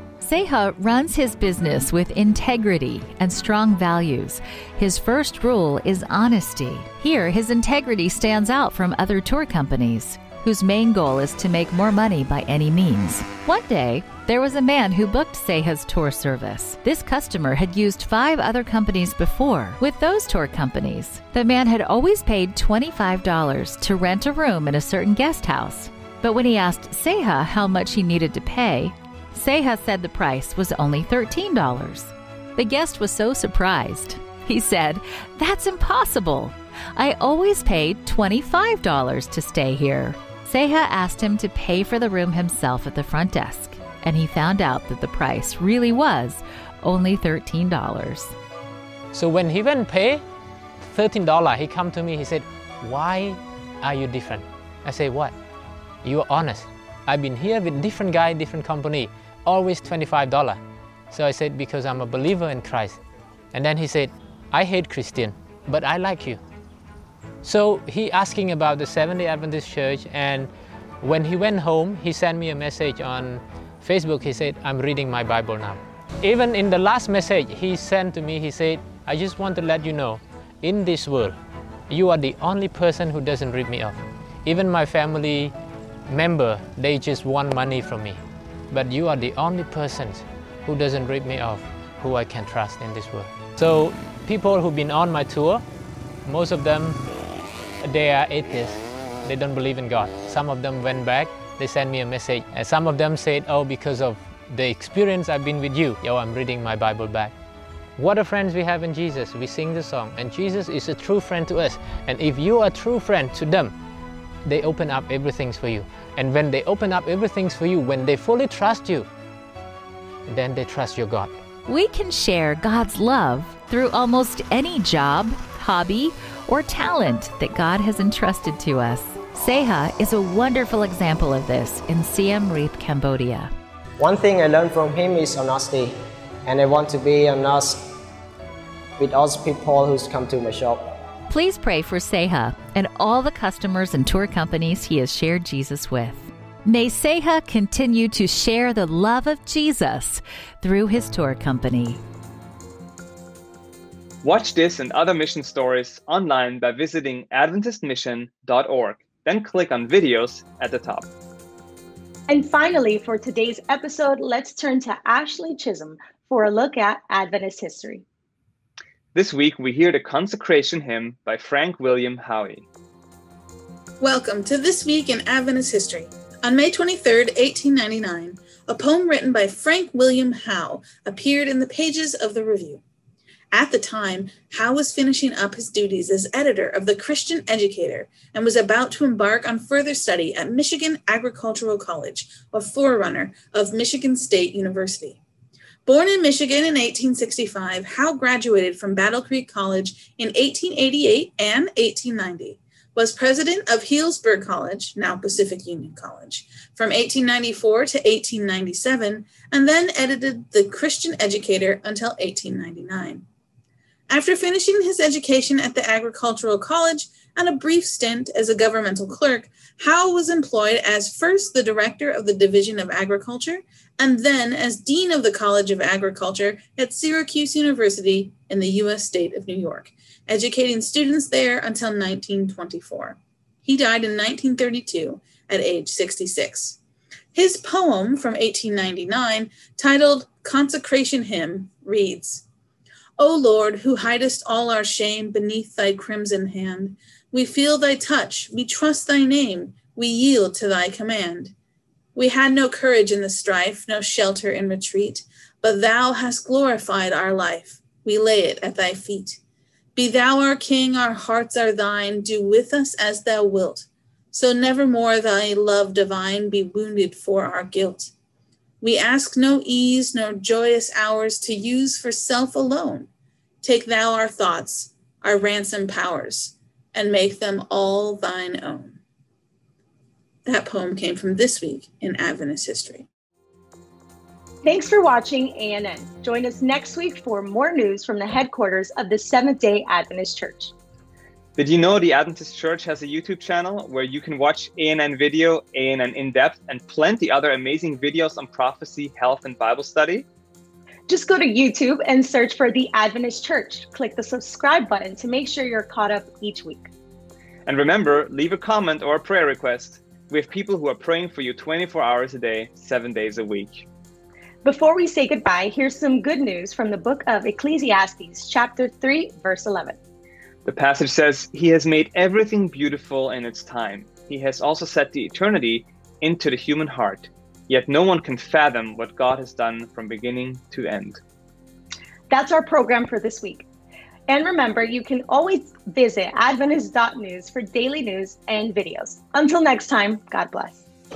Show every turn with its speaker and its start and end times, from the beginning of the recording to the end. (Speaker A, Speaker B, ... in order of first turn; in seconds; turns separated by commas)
Speaker A: 0.2-48.3, Speaker B: 49.1-50.2, Speaker B: 50.9-55.3, Speaker B: 56.0-60.6, Speaker B: 61.1-63.0, Speaker B: 63.5-66.4, Speaker B: 67.4-70.5, Speaker B: 71.0-81.3, Speaker B: 81.9-85.5, Speaker B: 86.1-95.6, Speaker B: 96.2-97.0, Speaker B: 97.8-107.3, Speaker B: 108.0-113.7, Speaker B: 114.4-119.1, Speaker B: 120.3-121.3, Speaker A: 121.7-133.5, Speaker C: 134.0-137.9, Speaker C: 139.0-140.8, Speaker A: 141.3-152.0, Speaker D: 154.2-161.1, Speaker E: 162.3-168.0, Speaker D: 169.1-172.6, Speaker F: 174.0-182.8, Speaker F: 183.5-195.2, Speaker F: 195.8-213.2, Speaker F: 214.1-236.8, Speaker F: 237.3-242.4, Speaker F: 243.2-251.5, Speaker F: 252.1-259.4, Speaker F: 259.9-268.1, Speaker F: 268.8-273.1, Speaker F: 273.6-279.0, Speaker F: 280.4-283.1, Speaker E: 284.6-290.7, Speaker D: 291.6-300.2, Speaker E: 301.1-306.9, Speaker D: 307.6-313.9, Speaker E: 314.6-320.0, Speaker D: 320.6-331.2, Speaker E: 332.3-333.6, Speaker E: 334.3-340.8